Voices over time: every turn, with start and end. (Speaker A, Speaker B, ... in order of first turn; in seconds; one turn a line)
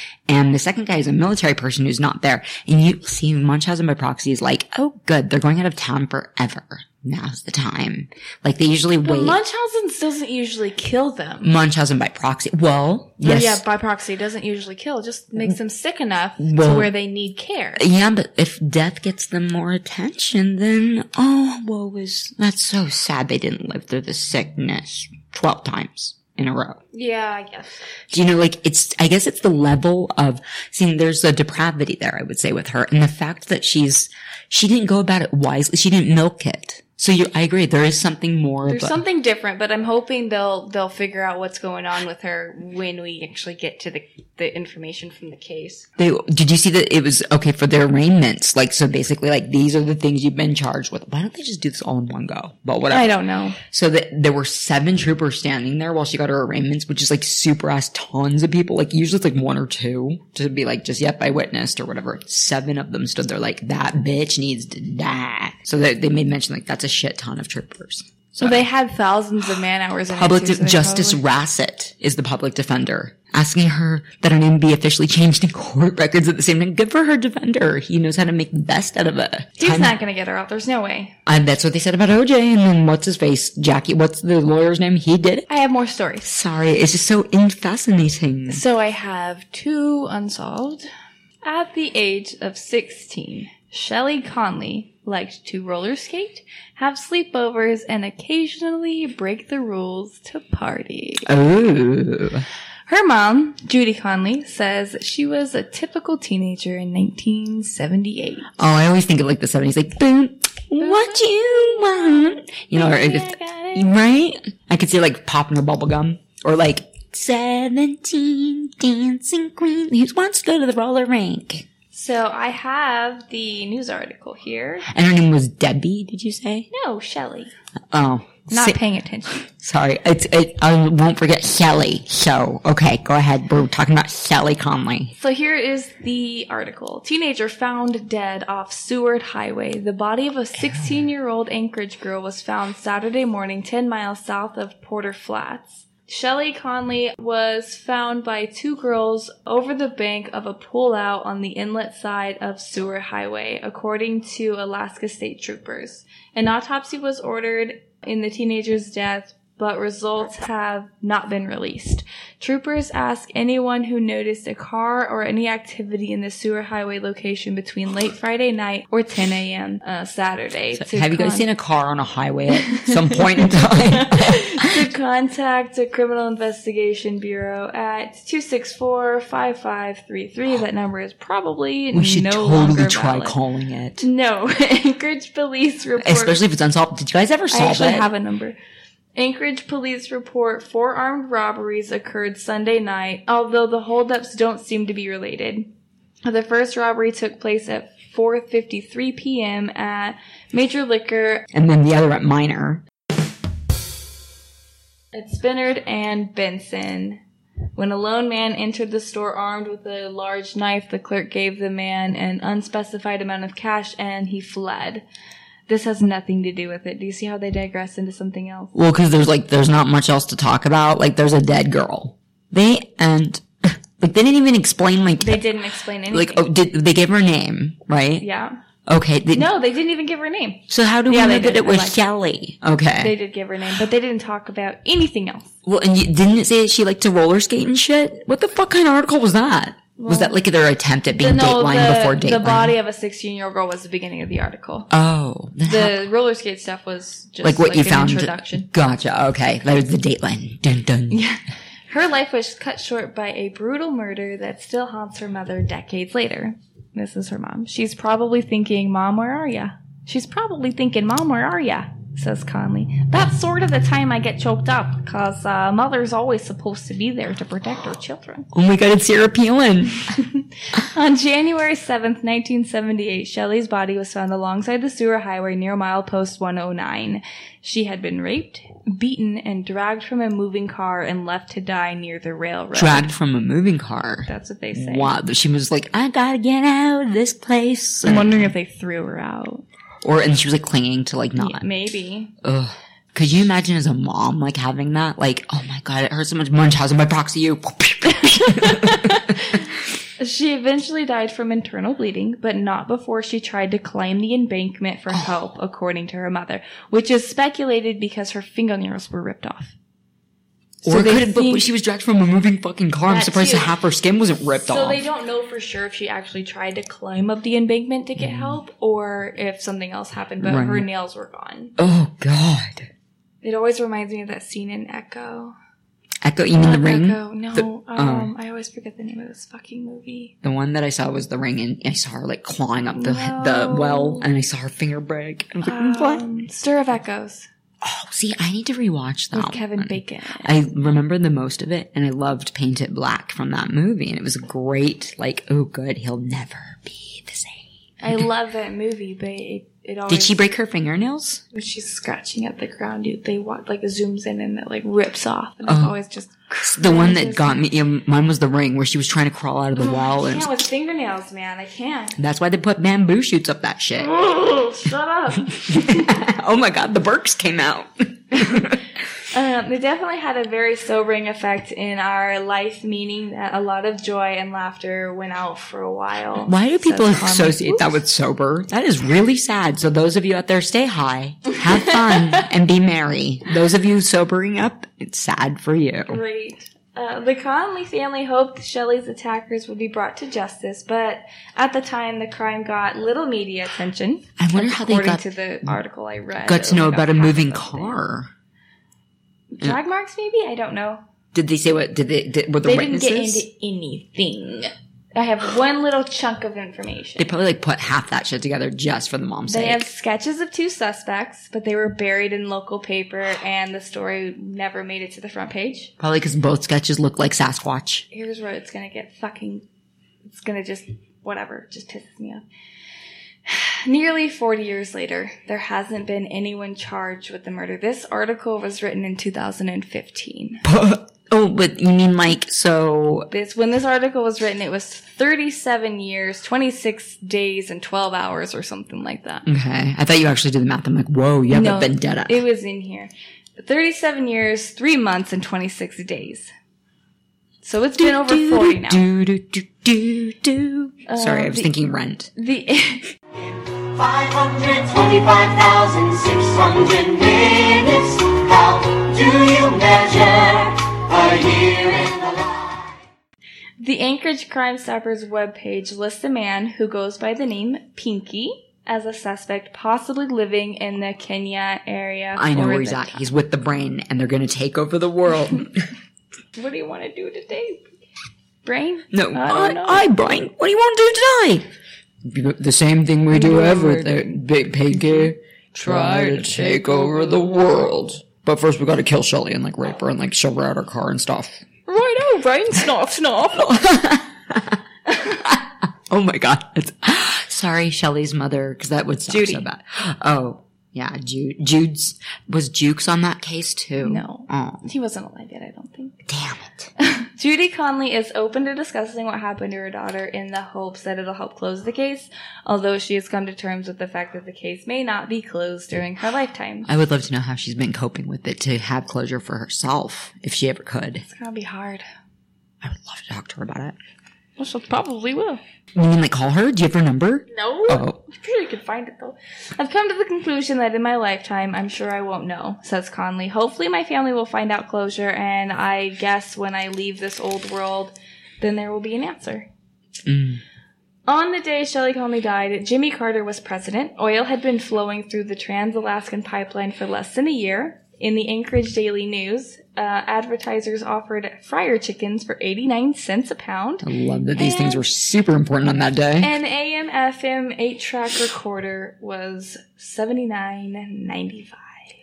Speaker A: 0.3-9.4
Speaker B: 9.0-11.5
Speaker A: 11.4-13.6
Speaker B: 13.2-17.8
Speaker A: 16.4-16.9
Speaker A: 17.8-26.8
Speaker B: 26.9-27.9
Speaker A: 28.1-39.0
Speaker B: 38.7-45.9
Speaker A: 46.0-68.7
Speaker B: 52.9-53.6
Speaker B: 68.4-71.2
Speaker A: 70.1-80.0
Speaker B: 79.6-81.2
Speaker A: 81.3-85.5
Speaker B: 85.5-86.3
Speaker A: 86.2-88.6
Speaker B: 88.5-90.9
Speaker B: 91.4-101.3
Speaker A: 101.2-102.5
Speaker B: 102.9-108.5
Speaker A: 108.6-121.7
Speaker B: 110.8-113.9
Speaker B: 121.9-124.9
Speaker A: 124.9-126.7
Speaker B: 126.7-127.5
Speaker A: 127.9-128.8
Speaker B: 128.5-129.4
Speaker A: 129.4-135.1
Speaker B: 135.2-171.5
Speaker A: 170.7-174.8
Speaker B: 172.7-183.4
Speaker A: 181.9-184.0
Speaker B: 184.0-186.4
Speaker A: 186.0-188.1
Speaker B: 187.5-188.6
Speaker B: 189.2-195.7
Speaker B: 196.2-201.5
Speaker A: 201.5-202.8
Speaker B: 205.1-207.2
Speaker B: 207.8-215.0
Speaker B: 215.7-218.8
Speaker A: 218.8-225.5
Speaker B: 225.2-226.5
Speaker A: 226.1-228.3
Speaker B: 228.2-228.6
Speaker A: 228.9-229.5
Speaker B: 229.3-232.0
Speaker A: 230.7-233.2
Speaker B: 233.0-235.5
Speaker A: 235.7-242.8
Speaker B: 240.0-240.4
Speaker B: 241.1-244.9
Speaker A: 244.9-246.1
Speaker B: 245.7-248.7
Speaker A: 247.4-251.2
Speaker B: 251.1-268.5
Speaker A: 268.5-270.1
Speaker B: 270.2-283.1
Speaker A: 282.8-288.5
Speaker B: 284.3-285.1
Speaker B: 288.0-289.6
Speaker A: 290.0-291.7
Speaker B: 291.4-292.3
Speaker A: 292.4-299.6
Speaker B: 298.6-299.6
Speaker B: 300.2-309.7
Speaker A: 310.8-315.0
Speaker B: 310.9-311.7
Speaker B: 313.1-313.7
Speaker B: 314.7-321.8
Speaker A: 318.2-318.6
Speaker A: 320.4-320.9
Speaker A: 321.8-322.9
Speaker B: 323.4-325.6
Speaker A: 326.2-328.3
Speaker B: 326.6-330.3
Speaker A: 330.4-336.3
Speaker B: 332.9-334.3
Speaker B: 335.6-337.5
Speaker A: 337.8-348.2
Speaker B: 339.3-340.5
Speaker B: 348.0-350.4
Speaker A: 350.1-351.4
Speaker B: 351.5-357.6
Speaker A: 355.6-355.9
Speaker A: 356.6-360.6
Speaker B: 359.8-362.2
Speaker A: 362.2-364.1
Speaker B: 364.0-366.1
Speaker A: 365.5-368.9
Speaker B: 369.3-378.0
Speaker A: 376.5-386.2
Speaker B: 386.1-398.0
Speaker A: 394.4-395.7
Speaker A: 396.4-398.3
Speaker B: 399.5-401.0
Speaker A: 401.3-403.4
Speaker B: 402.6-407.3
Speaker A: 407.2-409.9
Speaker B: 409.5-415.9
Speaker A: 416.0-418.1
Speaker B: 418.1-419.6
Speaker B: 420.3-422.4
Speaker B: 423.5-430.6
Speaker A: 430.6-433.3
Speaker B: 433.3-439.5
Speaker A: 439.5-442.4
Speaker B: 441.5-446.5
Speaker B: 447.6-449.0
Speaker A: 448.0-452.3
Speaker B: 451.1-451.7
Speaker B: 452.4-453.1
Speaker C: 453.7-462.9
Speaker B: 463.8-473.3
Speaker A: 472.4-475.9
Speaker B: 476.6-477.9
Speaker B: 478.6-480.1
Speaker A: 479.1-481.7
Speaker A: 482.2-491.6
Speaker B: 483.3-484.2
Speaker B: 484.9-487.6
Speaker B: 491.9-493.7
Speaker A: 493.5-494.8
Speaker A: 495.3-504.9
Speaker B: 499.3-499.6
Speaker B: 504.0-506.2
Speaker A: 506.3-506.9
Speaker B: 507.0-516.9
Speaker A: 516.9-521.2
Speaker B: 521.2-522.0
Speaker A: 522.8-524.0
Speaker B: 524.6-525.6
Speaker A: 526.0-528.2
Speaker B: 527.5-539.7
Speaker A: 540.3-540.6
Speaker B: 541.3-555.0
Speaker A: 554.0-556.5
Speaker B: 556.4-562.0